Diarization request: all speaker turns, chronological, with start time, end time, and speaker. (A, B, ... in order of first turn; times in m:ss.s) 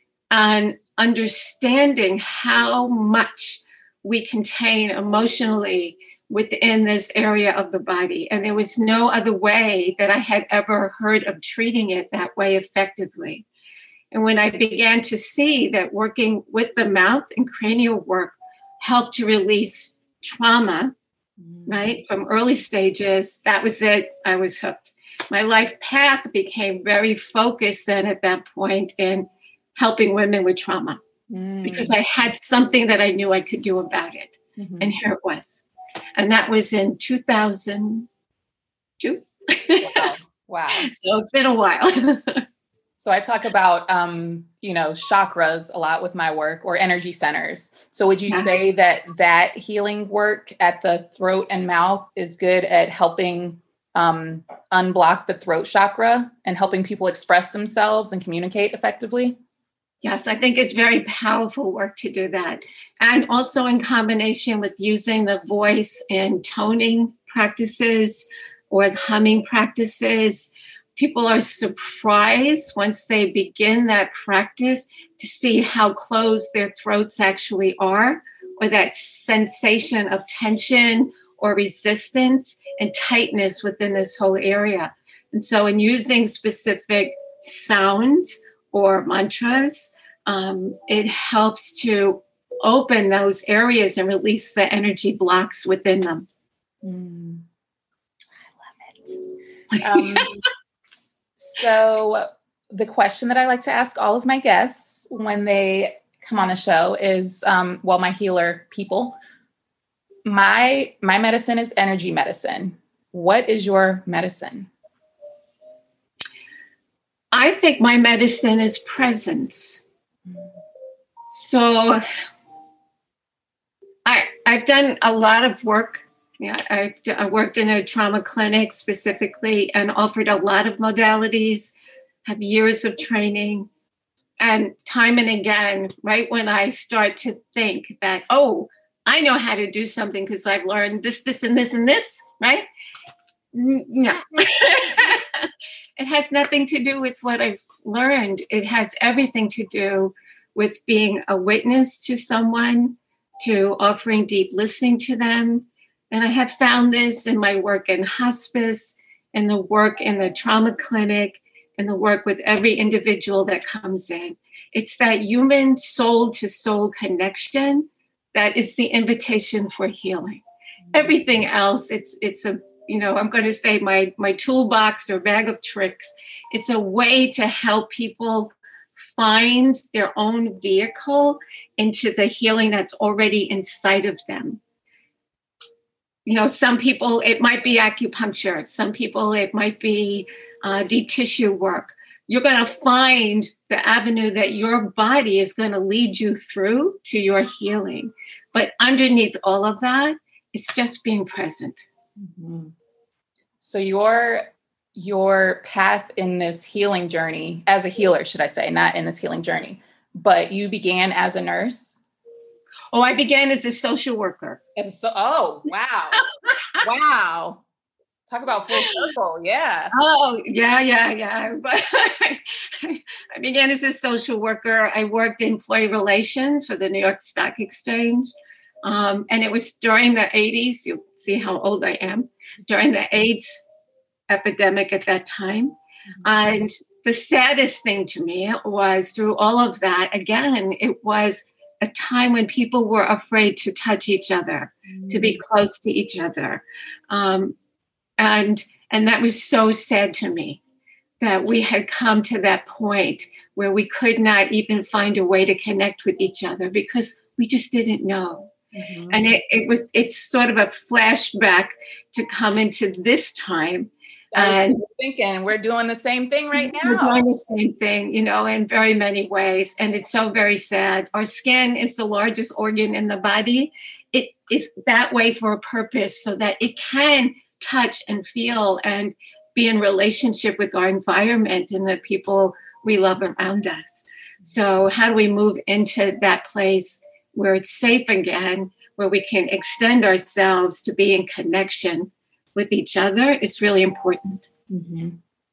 0:00.3-0:13.5 A
0:14.1-0:20.9 A
0:21.4-0:22.0 B
0:21.7-0:31.0 A
0:31.3-0:32.0 B
0:31.6-0:35.6 A
0:34.6-0:34.9 B
0:36.2-0:38.1 A
0:39.0-0:40.1 A
0:39.8-0:40.9 B
0:40.7-0:42.4 A
0:43.0-0:59.4 B
1:00.0-1:36.3 A
1:36.8-1:37.4 B
1:38.6-1:39.2 B
1:39.7-1:40.4 A
1:39.8-1:40.4 B
1:41.4-1:49.2 B
1:50.2-1:54.7 B
1:57.3-1:59.8 A
2:01.3-2:02.0 A
2:04.0-2:11.7 A
2:12.3-2:13.7 A
2:14.4-2:22.6 A
2:23.5-2:50.4 A
2:50.9-2:51.2 B
2:50.9-3:04.6 A
3:06.3-3:21.8 A
3:22.2-3:22.7 B
3:23.6-3:32.0 B
3:32.9-3:34.6 A
3:34.8-3:36.2 B
3:36.8-3:37.6 B
3:38.3-3:39.9 B
3:38.7-3:39.1 A
3:39.9-3:48.3 A
3:48.8-3:53.6 A
3:54.3-4:07.6 A
4:04.9-4:05.4 B
4:08.2-4:10.6 A
4:11.2-4:18.5 A
4:18.7-4:19.2 B
4:19.1-4:24.8 A
4:24.3-4:27.2 B
4:26.6-4:54.5 A
4:54.7-4:55.2 B